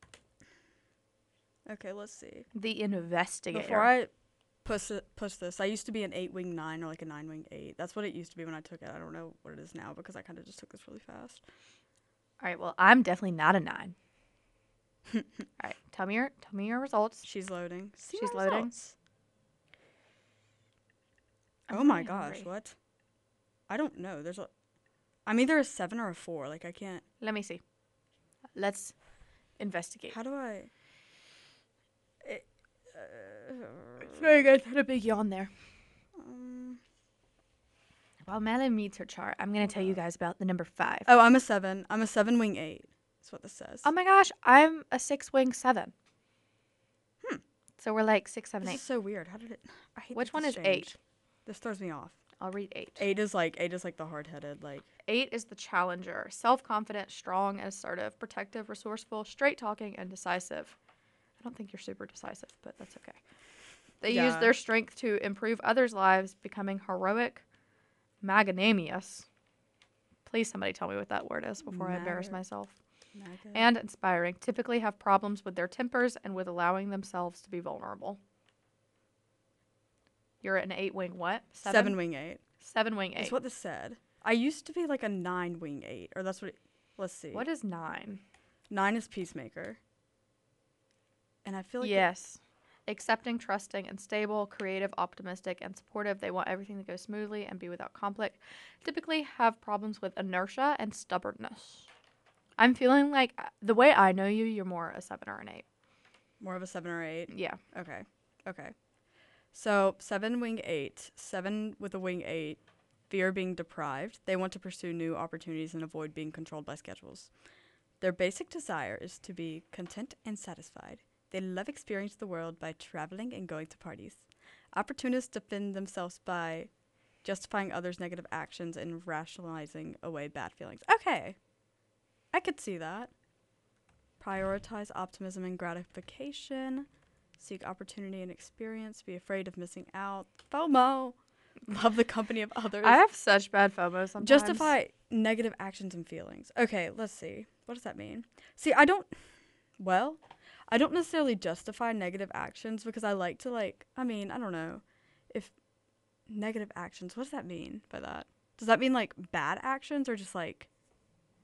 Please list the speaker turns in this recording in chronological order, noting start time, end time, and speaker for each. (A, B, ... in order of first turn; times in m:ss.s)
0:01.6-0:02.5 A
0:02.5-0:03.9 B
0:03.5-0:04.1 A
0:04.6-0:11.4 A
0:12.4-0:13.9 B
0:15.6-0:17.2 B
0:17.2-0:18.9 A
0:18.1-0:18.7 B
0:21.7-0:22.5 B
0:21.7-0:22.7 A
0:23.7-0:24.5 A
0:25.2-0:27.0 A
0:27.2-0:27.6 B
0:28.6-0:28.9 B
0:29.6-0:30.2 B
0:30.1-0:30.7 A
0:32.2-0:34.4 A
0:34.0-0:35.5 B
0:36.2-0:36.8 A
0:38.2-0:41.1 B
0:41.0-0:43.9 A
0:43.8-0:45.9 B
0:47.8-0:48.8 B
0:48.6-0:50.9 A
0:50.1-0:50.9 B
0:51.4-0:52.1 A
0:52.4-0:53.0 B
0:53.0-0:54.9 A
0:55.0-1:00.8 B
1:01.4-1:03.2 B
1:04.0-1:07.4 B
1:04.1-1:04.5 A
1:08.2-1:09.2 B
1:10.2-1:12.7 B
1:11.6-1:12.4 A
1:13.1-1:13.7 A
1:13.5-1:18.2 B
1:20.4-1:22.0 B
1:21.6-1:22.4 A
1:22.6-1:23.4 B
1:23.2-1:27.5 A
1:27.3-1:28.2 B
1:28.7-1:29.8 A
1:31.4-1:32.1 A
1:31.8-1:41.9 B
1:42.6-1:45.6 B
1:46.4-1:48.7 A
1:47.3-1:47.6 B
1:49.5-1:57.3 A
1:58.0-2:04.2 A
2:04.7-2:06.7 A
2:07.2-2:11.4 A
2:12.3-2:13.1 A
2:14.2-2:16.9 A
2:17.4-2:23.0 A
2:22.8-2:24.7 B
2:24.2-2:29.1 A
2:29.8-2:35.5 A
2:36.3-2:40.7 A